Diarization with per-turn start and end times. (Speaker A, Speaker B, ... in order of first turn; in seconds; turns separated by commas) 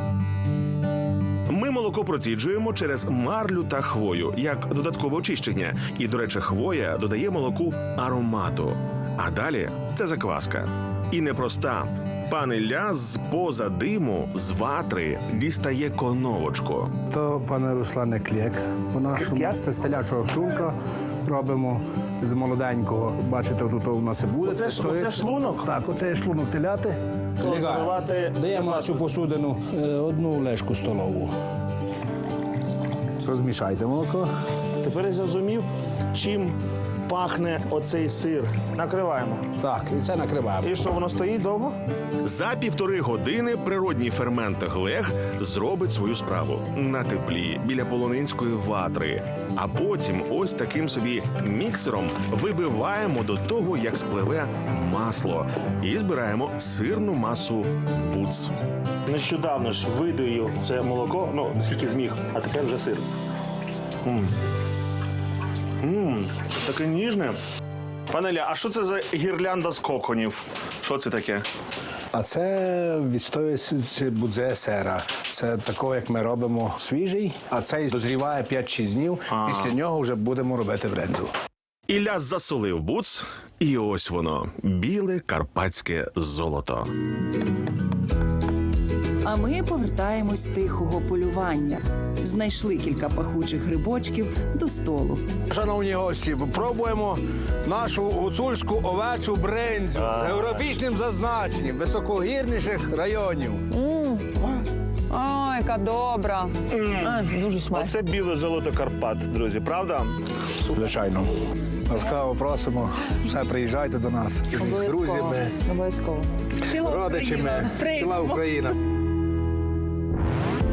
Speaker A: 1.5-16.9, Speaker B: 17.1-31.3, Speaker C: 19.2-19.6, Speaker C: 24.4-25.7, Speaker C: 27.4-29.0, Speaker B: 33.2-34.3, Speaker C: 34.8-36.6, Speaker C: 37.1-39.5, Speaker B: 39.6-40.7, Speaker C: 40.6-41.8, Speaker A: 42.2-58.5, Speaker C: 59.1-63.1, Speaker C: 64.0-64.3, Speaker C: 65.8-67.4, Speaker A: 68.1-69.2, Speaker C: 68.2-70.4, Speaker A: 69.8-70.3, Speaker A: 70.8-71.5, Speaker B: 72.1-81.3, Speaker A: 79.3-79.7, Speaker A: 81.9-86.9, Speaker D: 89.2-95.3, Speaker B: 95.5-103.7, Speaker C: 100.0-100.6, Speaker E: 103.7-107.9, Speaker C: 106.7-110.2, Speaker B: 110.6-111.3, Speaker B: 111.9-115.5, Speaker E: 114.6-118.4, Speaker B: 116.7-118.8